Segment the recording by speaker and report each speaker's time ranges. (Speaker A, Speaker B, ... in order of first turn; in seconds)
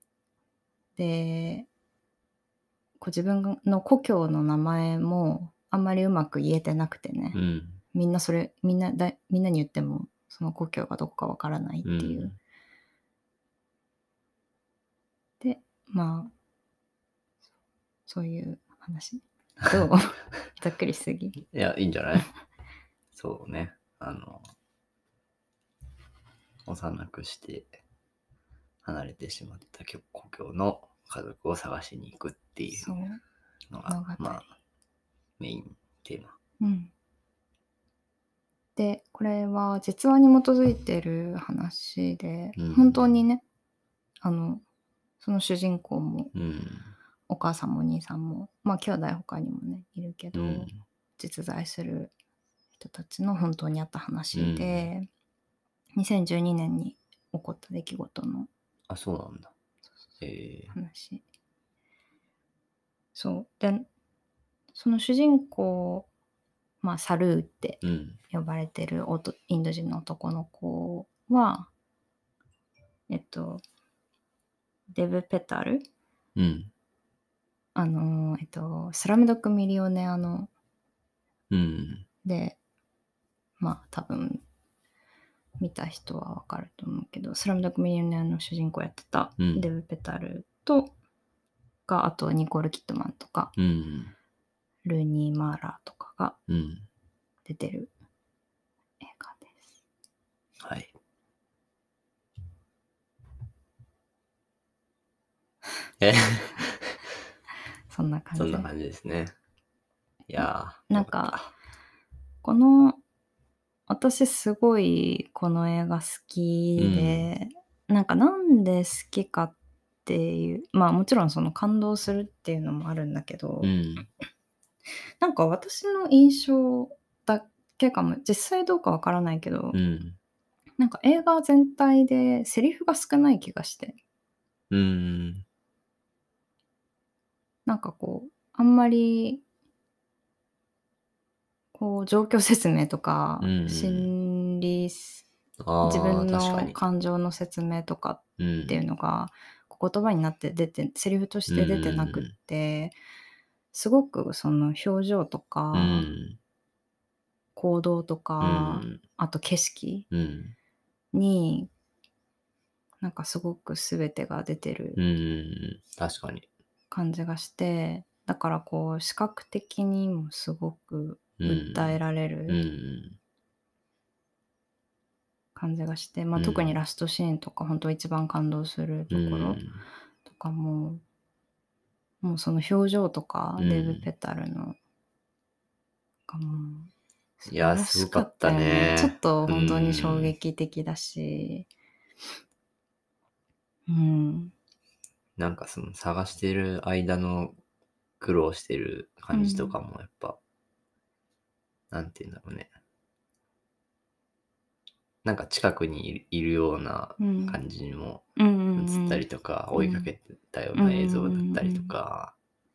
Speaker A: 1.0-1.7, 3.0-7.4, 7.9-12.3, 15.4-16.3, 18.1-21.4, 32.8-33.2, 33.9-34.5, 36.6-36.9, 38.8-43.4, 44.2-44.6, 45.2-46.3, 47.3-52.1, 52.8-55.1, 56.0-58.5, 60.7-61.2, 63.1-63.9, 64.7-66.1, 66.8-71.7, 73.1-73.6, 74.9-75.9, 77.8-80.5, 82.2-82.6, 83.6-84.4, 85.6-90.9, 91.9-93.5, 94.8-96.4, 97.5-97.9, 99.0-99.7, 107.9-108.7, 110.9-111.4, 112.4-113.0, 113.9-119.5, 120.1-123.7, 125.2-129.8, 130.8-134.0, 137.7-139.4, 141.7-145.3, 145.8-152.9, 153.7-156.1, 157.6-160.1, 161.1-161.7, 163.0-165.0, 166.9-172.6, 175.6-179.6, 180.3-181.0, 182.2-184.8, 186.3-186.9, 187.4-191.7, 193.9-194.5, 199.3-199.8, 207.2-207.6, 208.4-210.1, 210.8-211.9
Speaker B: 7.3-7.8, 11.8-12.4, 21.4-22.3, 23.1-24.4, 26.6-27.8, 28.8-32.9, 33.7-34.4, 35.4-36.3, 42.6-43.0, 46.3-46.9, 50.3-50.8, 54.3-54.9, 58.9-59.5, 60.2-60.7, 67.8-68.2, 76.4-76.7, 81.5-82.1, 89.4-89.7, 93.6-94.1, 96.5-96.9, 100.6-100.9, 106.0-107.0, 108.4-109.3, 110.3-111.5, 116.8-117.3, 123.6-124.1, 129.7-130.2, 134.7-135.4, 143.4-144.1, 145.6-146.8, 148.4-148.8, 151.5-152.3, 155.7-156.4, 158.4-159.0, 160.1-160.6, 165.0-166.5, 171.4-173.2, 176.4-176.8, 179.1-179.8, 183.6-184.1, 187.5-190.3, 195.4-197.6, 198.2-200.4, 201.9-202.7, 205.2-208.2, 208.8-212.3